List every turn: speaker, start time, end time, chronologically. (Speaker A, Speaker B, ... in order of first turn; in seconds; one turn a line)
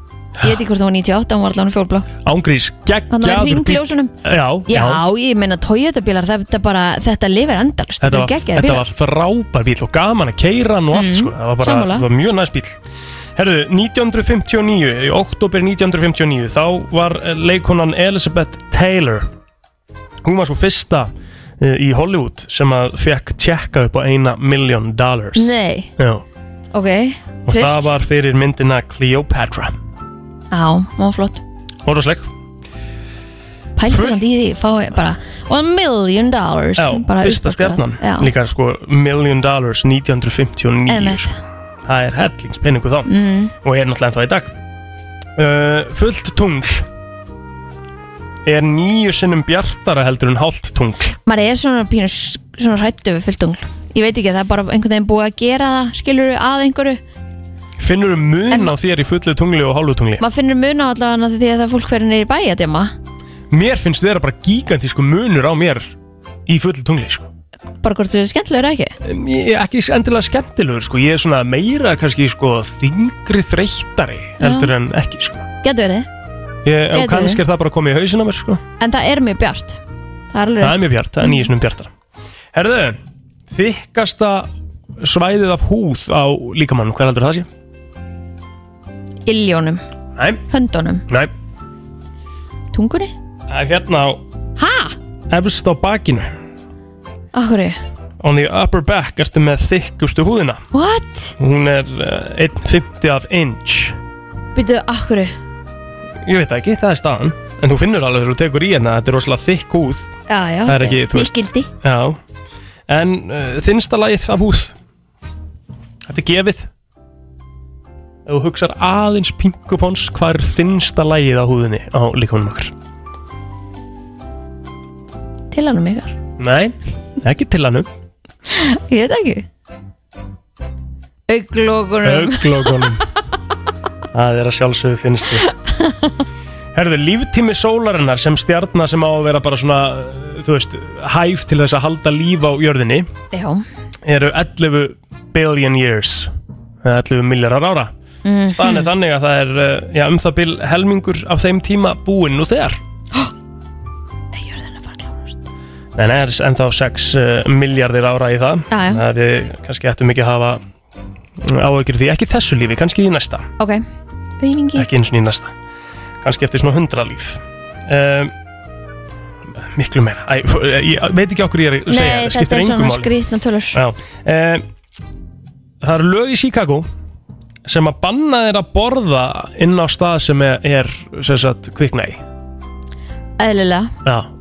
Speaker A: 0.4-2.1
Speaker B: 2.2-5.0
Speaker A: 3.1-4.1
Speaker A: 4.7-8.8
Speaker B: 8.0-12.8
Speaker A: 10.9-12.1
Speaker B: 13.4-19.3
Speaker B: 20.2-26.2
Speaker A: 25.4-25.9
Speaker A: 26.7-27.9
Speaker B: 27.5-29.7
Speaker A: 30.5-31.4
Speaker B: 31.9-32.3
Speaker A: 33.8-38.3
Speaker B: 33.9-34.2
Speaker B: 36.8-41.3
Speaker A: 40.9-41.4
Speaker B: 41.9-43.1
Speaker A: 43.1-43.5
Speaker B: 43.6-44.5
Speaker B: 45.4-46.9
Speaker B: 48.5-51.2
Speaker A: 51.3-57.0
Speaker B: 57.8-60.2
Speaker A: 60.2-62.9
Speaker B: 63.5-65.9
Speaker B: 66.5-67.3
Speaker A: 67.8-68.9
Speaker B: 69.0-75.5
Speaker A: 74.4-74.7
Speaker A: 75.6-76.1
Speaker B: 76.7-78.6
Speaker A: 76.9-77.4
Speaker A: 78.8-79.8
Speaker A: 80.3-81.4
Speaker B: 80.6-81.9
Speaker B: 82.5-83.0
Speaker B: 83.5-84.5
Speaker B: 85.0-87.5
Speaker A: 89.3-89.8
Speaker A: 90.5-91.0
Speaker A: 92.7-93.1
Speaker B: 93.5-94.2
Speaker A: 94.6-95.0
Speaker B: 95.3-96.3
Speaker A: 97.3-97.8
Speaker B: 98.2-100.6
Speaker A: 100.7-101.3
Speaker B: 101.4-104.0
Speaker A: 104.5-105.3
Speaker B: 106.2-110.0
Speaker A: 110.3-111.7
Speaker B: 110.7-112.2
Speaker B: 112.9-114.7
Speaker B: 116.1-116.7
Speaker B: 118.3-122.7
Speaker A: 125.5-126.2
Speaker B: 126.4-127.9
Speaker A: 128.5-129.5
Speaker A: 131.3-132.8
Speaker B: 132.0-133.0
Speaker B: 134.1-135.5
Speaker A: 135.7-136.2
Speaker B: 136.7-143.1
Speaker A: 143.3-143.6
Speaker B: 144.1-146.3
Speaker B: 146.8-147.9
Speaker A: 148.2-148.9
Speaker B: 148.6-152.8
Speaker A: 154.3-155.4
Speaker B: 156.0-160.6
Speaker A: 158.7-159.0
Speaker B: 161.4-163.5
Speaker A: 163.6-163.8
Speaker A: 164.4-164.9
Speaker B: 164.8-165.5
Speaker B: 166.2-168.3
Speaker B: 169.7-173.1
Speaker A: 171.9-173.8
Speaker B: 173.7-174.6
Speaker B: 175.8-176.9
Speaker B: 177.7-182.2
Speaker A: 183.4-183.9